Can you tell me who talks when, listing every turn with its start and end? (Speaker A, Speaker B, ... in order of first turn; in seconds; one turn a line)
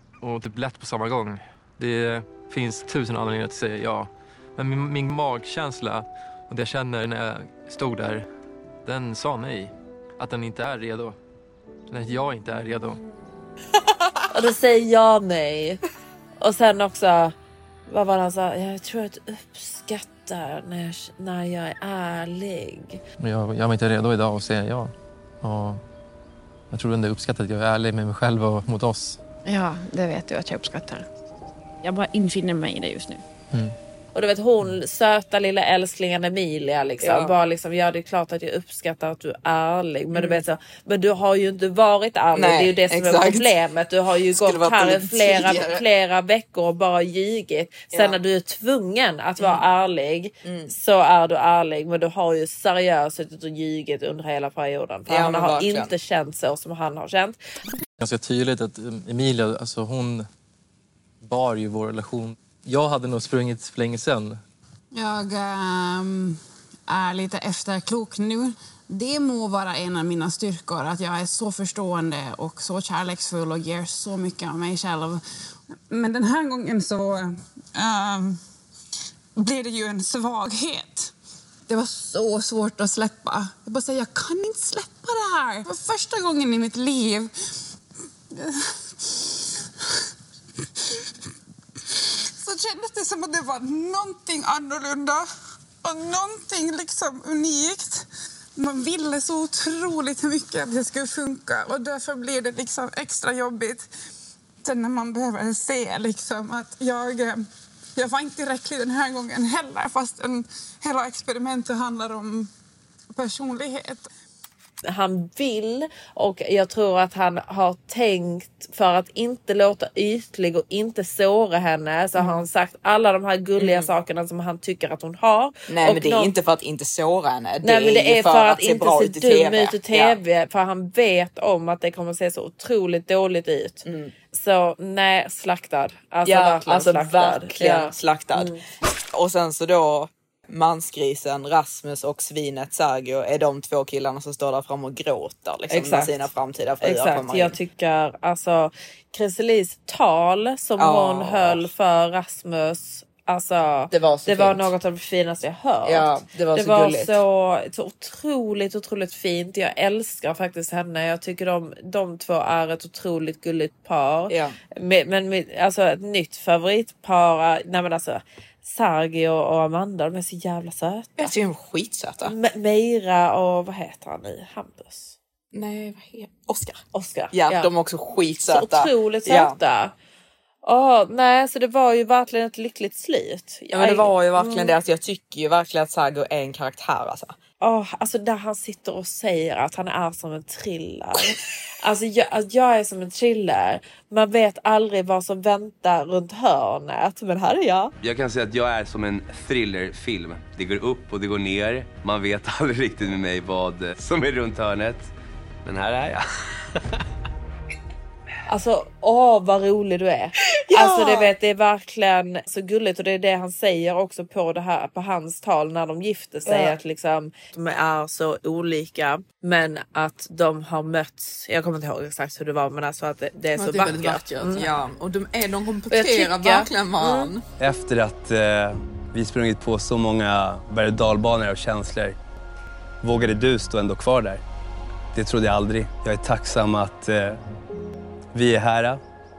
Speaker A: 0.2-8.3
Speaker A: 8.8-11.2
Speaker A: 11.9-13.0
Speaker B: 14.3-15.8
Speaker B: 16.4-17.3
Speaker B: 17.9-23.0
Speaker A: 23.2-25.8
Speaker A: 26.7-29.2
Speaker C: 29.4-31.1
Speaker C: 31.8-33.2
Speaker B: 34.1-57.4
Speaker D: 37.0-37.3
Speaker D: 40.1-40.4
Speaker D: 42.3-43.5
Speaker D: 44.3-45.8
Speaker D: 47.9-48.2
Speaker D: 50.4-50.7
Speaker D: 55.1-55.9
Speaker A: 58.0-60.3
Speaker A: 61.2-64.4
Speaker E: 64.9-75.2
Speaker E: 75.9-78.4
Speaker E: 79.3-81.1
Speaker E: 81.7-87.3
Speaker E: 88.3-89.5
Speaker E: 92.4-95.2
Speaker E: 95.8-103.9
Speaker E: 104.6-107.4
Speaker E: 108.0-112.5
Speaker E: 113.1-114.0
Speaker B: 114.8-126.3
Speaker D: 122.2-122.5
Speaker D: 123.6-123.9
Speaker D: 125.7-130.2
Speaker B: 127.6-138.6
Speaker D: 133.8-134.1
Speaker D: 136.2-138.5
Speaker D: 139.1-147.6
Speaker B: 145.7-146.2
Speaker B: 146.8-171.3
Speaker D: 150.8-151.7
Speaker D: 153.9-154.7
Speaker D: 155.8-157.2
Speaker D: 164.3-164.6
Speaker D: 171.2-172.3
Speaker B: 172.2-175.2
Speaker D: 175.5-176.8
Speaker B: 176.9-177.7
Speaker D: 177.3-179.6
Speaker B: 178.5-179.9
Speaker B: 180.6-184.7
Speaker D: 183.7-187.3
Speaker B: 187.6-197.9
Speaker F: 198.0-205.1
Speaker F: 205.6-206.2
Speaker B: 208.5-224.7
Speaker D: 210.6-211.3
Speaker D: 216.4-216.8
Speaker D: 223.5-227.4
Speaker B: 225.9-227.3
Speaker F: 227.6-232.2
Speaker F: 233.0-234.4
Speaker F: 235.1-237.4
Speaker F: 238.3-239.0